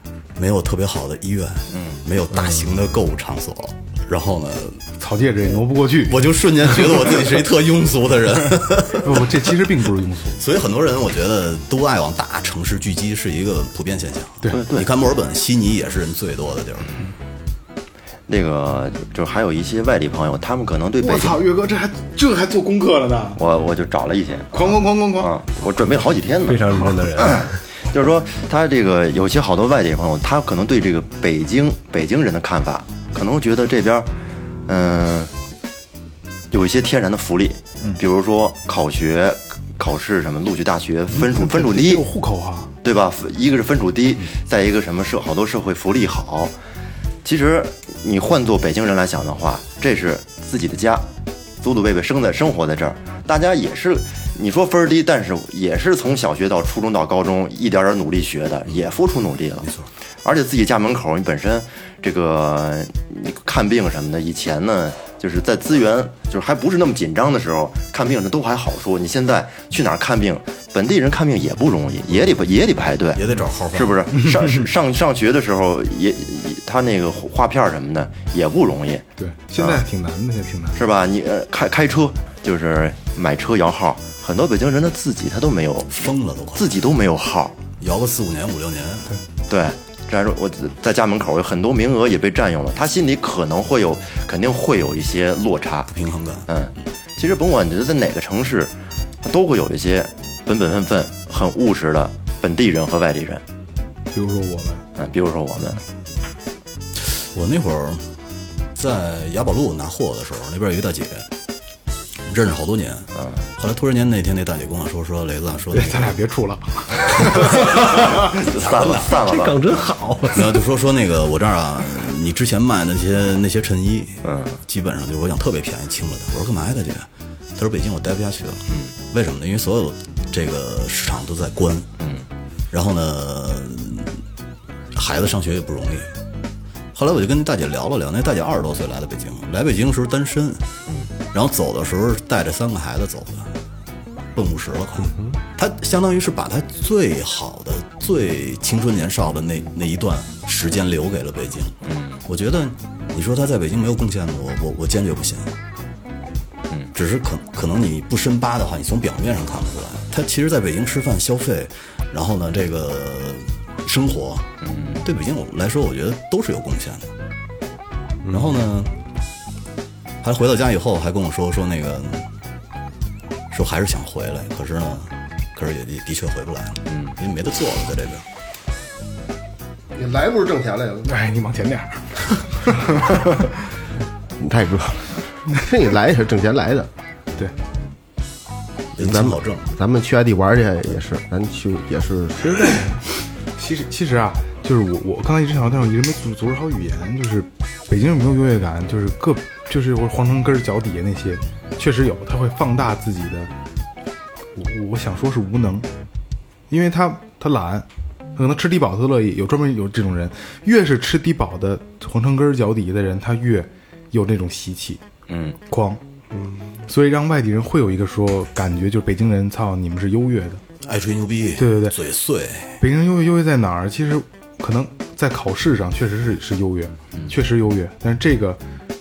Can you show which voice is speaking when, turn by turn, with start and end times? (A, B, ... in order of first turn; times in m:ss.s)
0:00.4-0:04.8 A
0:01.7-0:02.0 B
0:05.0-0:06.3 C
0:06.0-0:09.5 A
0:08.6-0:10.4 C
0:10.4-0:16.9 A
0:14.5-0:14.9 B
0:18.3-0:21.4 B
0:21.0-0:23.4 C
0:23.4-0:34.1 B
0:24.5-0:25.3 C
0:26.4-0:27.6 D
0:34.7-0:35.3 B
0:36.5-0:42.0 B
0:41.2-0:42.7 C
0:42.8-0:46.5 B
0:47.2-0:51.0 B
0:51.6-0:59.7 B
0:59.6-0:59.9 A
1:00.2-1:19.1 B
1:13.1-1:14.1 A
1:19.2-1:20.8 C
1:20.8-1:27.6 B
1:25.9-1:26.8 A
1:27.8-1:29.1 A
1:29.5-1:35.9 B
1:35.9-1:36.5 A
1:36.5-1:43.4 B
1:44.1-1:44.9 C
1:45.0-1:45.8 B
1:47.1-1:48.1 A
1:48.8-1:51.3 A
1:52.3-1:56.1 A
1:55.7-1:58.3 C
1:57.7-1:59.6 B
1:58.5-1:59.1 A
1:59.2-2:00.5 D
2:00.3-2:11.9 A
2:04.2-2:04.6 B
2:12.0-2:12.2 B
2:12.7-2:14.2 A
2:14.9-2:16.1 A
2:17.0-2:20.6 A
2:21.3-2:23.5 A
2:24.4-2:35.5 A
2:31.9-2:32.2 B
2:37.0-2:44.5 A
2:44.6-2:45.0 B
2:45.0-2:47.1 A
2:48.3-2:48.9 A
2:50.2-2:52.3 A
2:53.5-2:58.2 A
3:00.0-3:01.1 E
3:01.0-3:03.5 C
3:04.4-3:06.9 E
3:09.0-3:09.7 A
3:09.0-3:12.8 E
3:12.4-3:13.0 C
3:13.6-3:23.5 C
3:24.6-3:25.9 C
3:26.7-3:35.0 C
3:35.3-3:35.6 B
3:35.7-3:36.0 C
3:36.4-3:36.6 E
3:36.9-3:40.6 C
3:40.8-3:42.8 A
3:41.6-3:42.0 C
3:42.8-3:48.6 C